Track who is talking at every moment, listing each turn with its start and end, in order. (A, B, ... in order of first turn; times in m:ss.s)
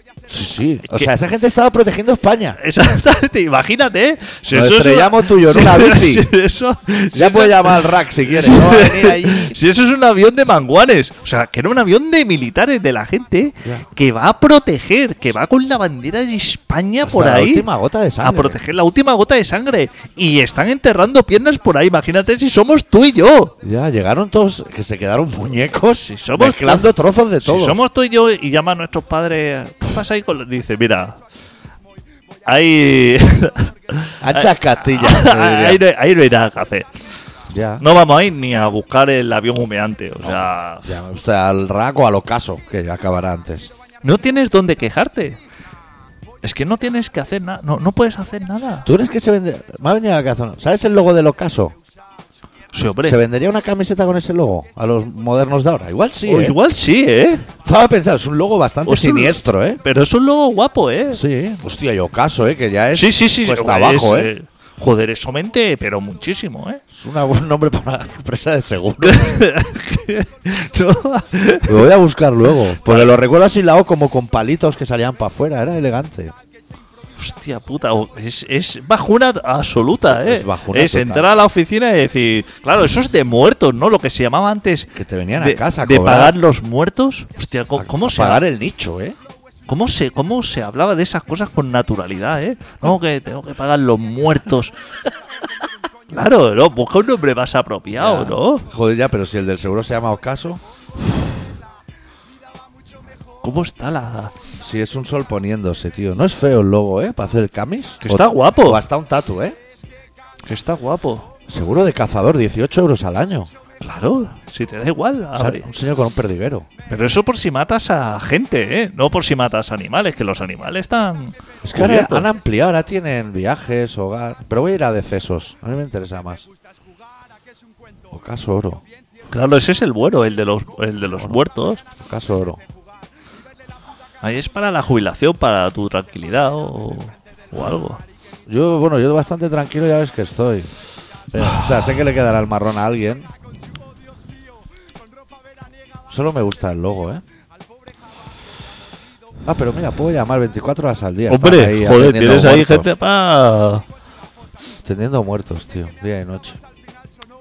0:00.3-0:02.6 A
0:02.6-0:17.7 B
0:04.5-0:06.3 A
0:07.1-0:09.6 A
0:17.0-0:18.6 A
0:18.2-0:23.5 B
0:23.6-0:27.8 A
0:26.0-0:26.9 B
0:27.4-0:31.2 B
0:32.5-0:36.9 B
0:34.2-0:35.8 A
0:37.5-0:37.8 A
0:37.8-0:40.9 B
0:40.2-0:43.7 A
0:44.0-0:45.4 B
0:46.4-0:48.9 B
0:48.8-0:51.8 A
0:52.7-0:53.2 B
0:53.0-0:56.6 A
0:56.3-0:57.5 B
0:57.6-0:59.8 A
0:58.9-1:01.2 B
1:01.1-1:04.3 A
1:03.0-1:06.8 B
1:06.9-1:09.5 A
1:09.0-1:11.8 B
1:11.7-1:16.3 A
1:12.8-1:13.1 B
1:17.2-1:28.4 B
1:20.0-1:21.3 A
1:25.0-1:26.4 A
1:27.7-1:29.2 A
1:29.7-1:34.8 B
1:36.1-1:38.7 B
1:38.0-1:40.6 A
1:43.4-1:44.3 B
1:44.6-1:49.6 A
1:48.0-1:48.8 B
1:50.4-1:51.3 B
1:51.5-1:53.5 A
1:53.8-1:55.6 B
1:55.4-1:56.7 A
1:56.9-2:02.3 B
2:01.6-2:06.5 A
2:08.1-2:08.8 A
2:09.3-2:11.8 B
2:12.0-2:12.6 A
2:14.2-2:18.0 B
2:18.5-2:20.7 A
2:21.3-2:23.3 A
2:21.4-2:21.7 B
2:26.1-2:27.2 A
2:29.4-2:32.9 A
2:31.3-2:33.8 B
2:34.8-2:36.6 A